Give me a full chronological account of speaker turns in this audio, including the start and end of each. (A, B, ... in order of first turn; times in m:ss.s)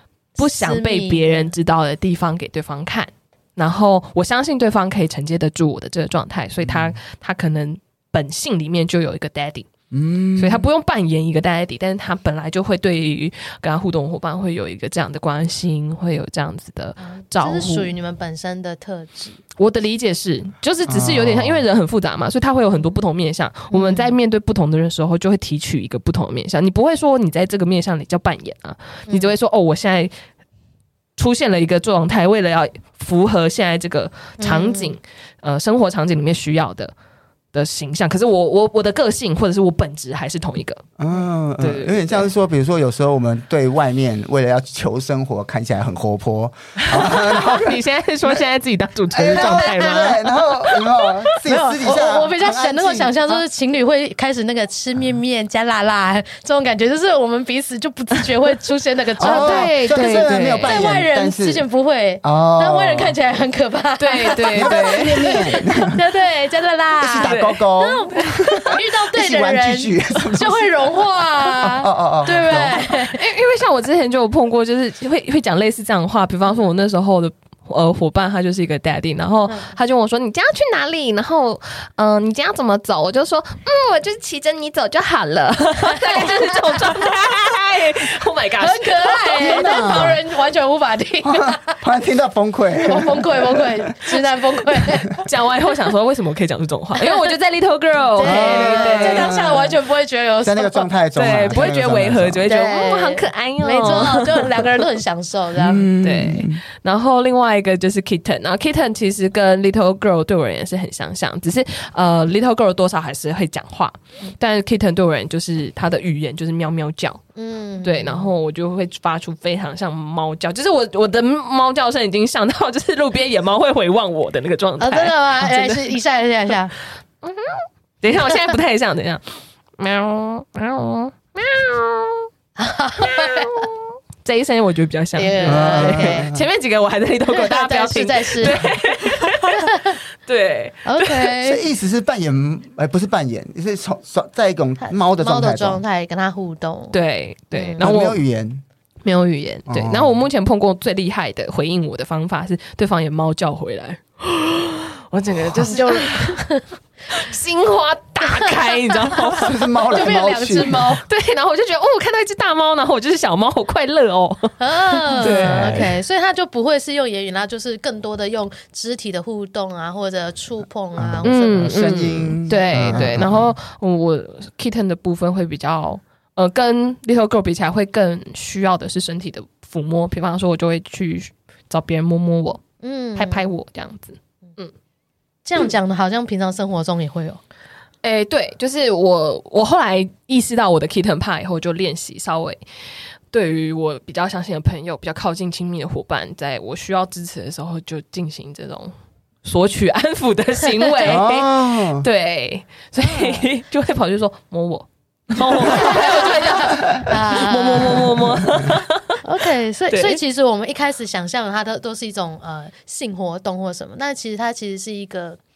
0:00.4-0:01.5 A
0:00.4-0:09.7 B
0:06.6-0:07.0 C
0:09.9-0:10.7 C
0:10.4-0:17.9 B
0:17.0-0:19.4 A
0:19.6-0:30.1 B
0:20.9-0:21.6 C
0:23.7-0:24.2 A
0:29.1-0:29.3 A
0:31.2-0:36.9 B
0:34.4-0:35.0 A
0:37.5-0:40.8 B
0:41.0-0:48.4 C
0:41.6-0:42.3 B
0:46.8-0:51.1 B
0:49.1-0:53.4 C
0:49.3-0:50.2 A
0:51.4-1:13.2 A
0:59.2-1:00.9 B
0:59.2-1:01.6 C
1:02.2-1:03.2 C
1:04.0-1:05.4 B
1:04.5-1:06.0 C
1:07.0-1:10.7 C
1:07.1-1:08.6 B
1:11.6-1:12.8 C
1:12.4-1:30.1 B
1:19.5-1:19.7 A
1:25.9-1:27.0 A
1:28.6-1:31.8 A
1:29.4-1:30.2 C
1:31.2-1:34.3 C
1:32.8-1:35.2 A
1:35.2-1:39.7 B
1:38.1-1:40.9 A
1:38.2-1:39.8 C
1:40.4-1:42.5 C
1:41.1-1:44.9 B
1:42.5-1:45.9 A
1:45.6-1:46.6 C
1:46.0-1:57.2 B
1:57.4-1:58.3 A
1:57.8-2:06.0 B
2:04.8-2:06.7 A
2:07.2-2:12.3 B
2:12.6-2:13.7 A
2:13.0-2:21.4 B
2:15.2-2:16.3 A
2:15.5-2:16.4 C
2:17.3-2:20.0 A
2:20.9-2:21.6 A
2:21.4-2:25.8 C
2:24.8-2:27.0 A
2:26.9-2:28.2 B
2:27.5-2:27.9 A
2:27.8-2:28.6 C
2:29.0-2:36.4 B
2:29.7-2:30.2 C
2:35.6-2:36.7 A
2:37.1-2:45.9 B
2:38.2-2:41.0 A
2:39.4-2:41.0 C
2:44.6-2:52.2 A
2:45.2-2:45.9 C
2:51.0-2:53.6 C
2:51.2-3:02.6 B
2:52.7-2:53.2 A
3:02.8-3:03.5 A
3:03.2-3:04.7 B
3:05.4-3:07.4 A
3:08.0-3:29.4 B
3:21.0-3:22.0 C
3:23.0-3:23.5 A
3:25.6-3:28.2 A
3:28.1-3:28.7 C
3:29.2-3:35.4 A
3:29.9-3:30.2 B